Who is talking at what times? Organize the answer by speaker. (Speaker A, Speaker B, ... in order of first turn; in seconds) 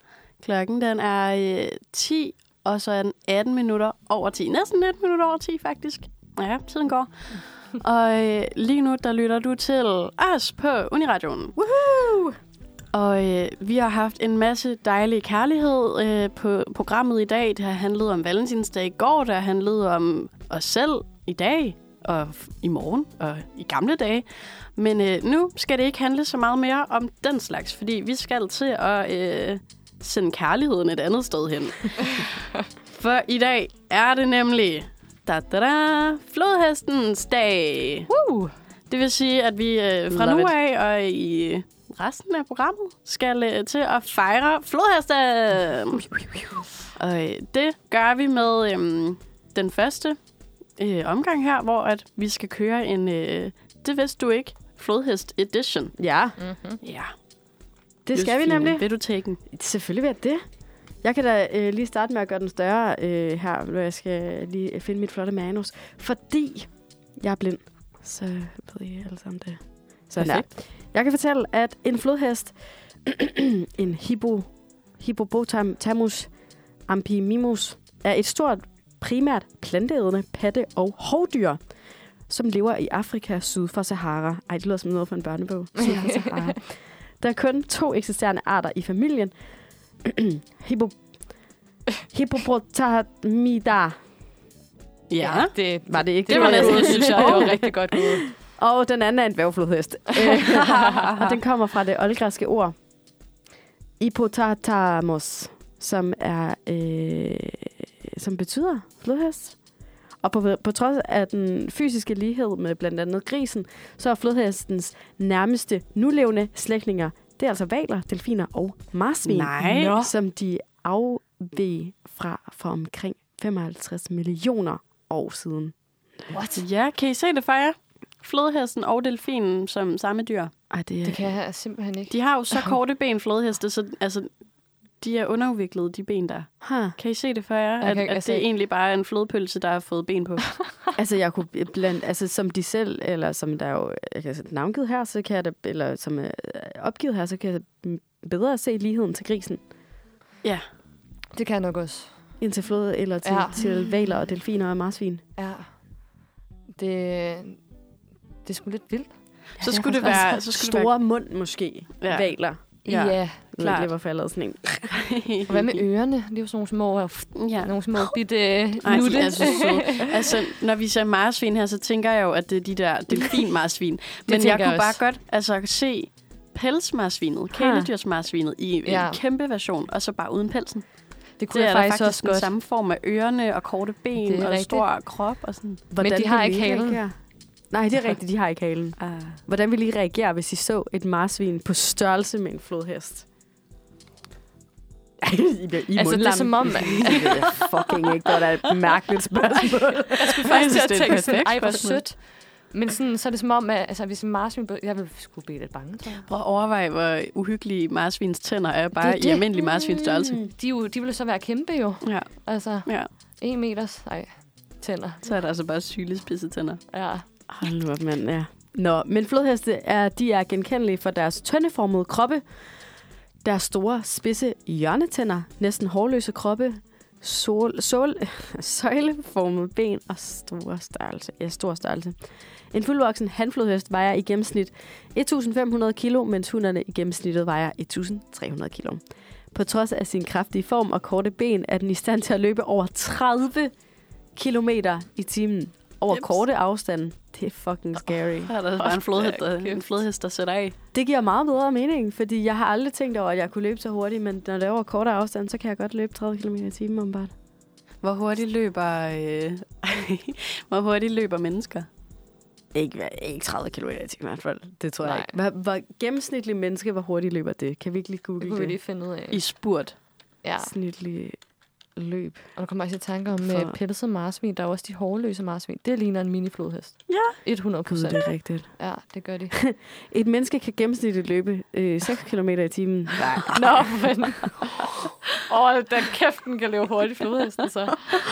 Speaker A: 0.4-11.6, 12.9-32.4, 33.0-38.1, 38.9-50.2, 50.8-55.9, 56.8-57.1, 58.1-59.4, 70.1-70.5, 95.1-95.5, 96.3-97.6, 100.9-101.3, 119.2-120.0, 126.5-130.5, 132.1-134.3, 135.0-140.6, 159.6-160.9, 162.0-163.0, 163.6-163.9, 164.9-165.5, 167.3-168.1, 168.8-180.9, 181.5-185.8, 189.0-189.4, 200.2-202.0, 206.2-210.4, 212.0-213.1, 215.2-216.8, 248.5-250.8, 258.0-261.9, 269.3-269.9, 277.1-277.4, 283.2-283.6
Speaker B: 11.6-12.4, 38.1-38.5, 40.1-40.5, 56.0-56.4, 58.0-58.9, 59.5-60.4, 61.0-76.3, 76.9-81.6, 82.3-89.3, 90.0-91.0, 92.1-94.0, 95.9-102.7, 104.0-109.5, 110.2-126.3, 130.7-131.2, 136.6-136.9, 141.0-149.6, 152.4-155.2, 159.6-165.0, 177.5-177.9, 185.9-187.2, 187.7-193.2, 195.2-200.5, 209.8-210.5, 217.5-222.4, 223.4-232.2, 232.7-239.0, 239.5-243.7, 244.3-248.5, 250.9-257.3, 262.7-268.8, 270.6-271.4, 271.9-272.5, 273.4-273.8, 277.9-278.8, 279.5-283.6
Speaker C: 56.4-56.8, 85.8-86.5, 95.2-98.3, 126.3-126.6, 131.0-132.1, 137.8-138.4, 151.3-152.2, 153.2-153.7, 155.4-155.8, 156.8-157.6, 158.4-159.2, 162.9-163.4, 165.5-170.2, 174.3-175.0, 178.8-179.2, 181.4-182.5, 184.2-184.8, 186.0-187.0, 195.9-197.6, 200.1-206.2, 209.0-209.4, 210.5-215.2, 216.9-217.2, 248.8-249.8, 265.0-265.3, 268.4-269.4, 270.4-270.7, 272.6-279.5, 283.5-284.9, 285.4-288.2